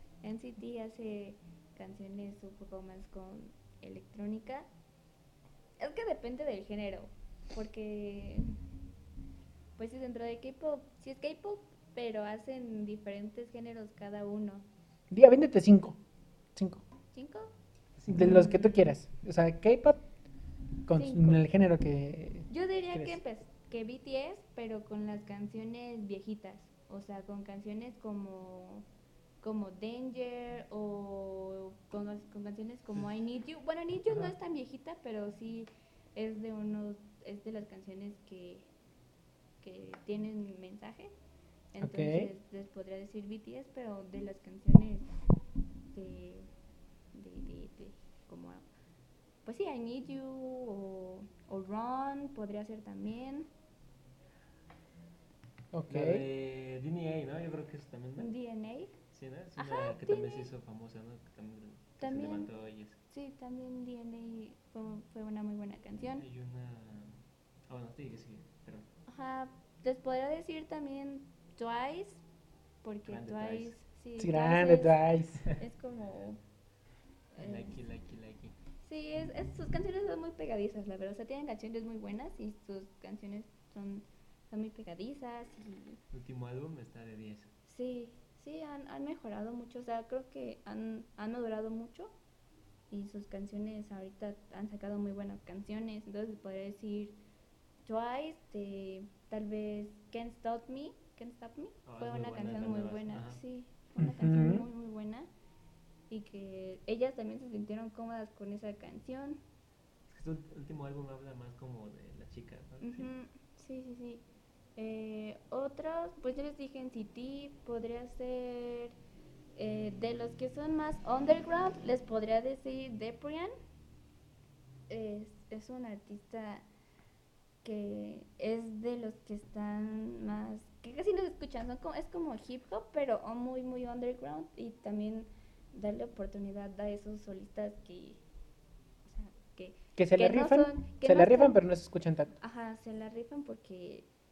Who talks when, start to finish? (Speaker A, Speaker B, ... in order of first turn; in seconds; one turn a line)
Speaker A: 0.2-4.7
Speaker A: 5.8-8.4
Speaker A: 9.8-14.7
Speaker B: 15.1-16.0
Speaker B: 16.6-16.8
Speaker A: 17.1-17.5
Speaker C: 18.0-18.5
Speaker B: 18.1-20.0
Speaker A: 18.1-18.8
Speaker B: 20.9-23.2
Speaker A: 20.9-21.4
Speaker A: 22.5-28.9
Speaker A: 29.4-38.7
Speaker C: 34.1-34.3
Speaker A: 39.6-41.1
Speaker A: 41.7-45.1
Speaker B: 41.8-42.3
Speaker A: 45.9-46.5
Speaker A: 47.1-48.6
Speaker A: 49.4-53.5
Speaker B: 55.7-56.2
Speaker C: 55.9-58.3
Speaker A: 58.2-59.0
Speaker C: 59.1-63.0
Speaker A: 59.6-60.5
Speaker A: 62.0-62.5
Speaker A: 63.1-66.2
Speaker C: 66.2-68.9
Speaker A: 69.1-72.2
Speaker A: 72.8-76.4
Speaker C: 73.0-73.7
Speaker B: 74.2-75.5
Speaker A: 77.3-77.8
Speaker C: 77.4-78.5
Speaker A: 78.8-86.0
Speaker C: 86.1-87.5
Speaker A: 87.7-92.1
Speaker A: 92.9-97.2
Speaker A: 97.8-105.3
Speaker C: 101.8-103.4
Speaker B: 104.0-104.7
Speaker A: 106.1-109.4
Speaker C: 110.1-113.1
Speaker A: 112.8-114.2
Speaker A: 114.8-119.0
Speaker A: 119.5-123.5
Speaker A: 124.9-126.6
Speaker A: 127.6-138.2
Speaker A: 139.0-141.6
Speaker B: 139.9-142.3
Speaker A: 142.4-144.1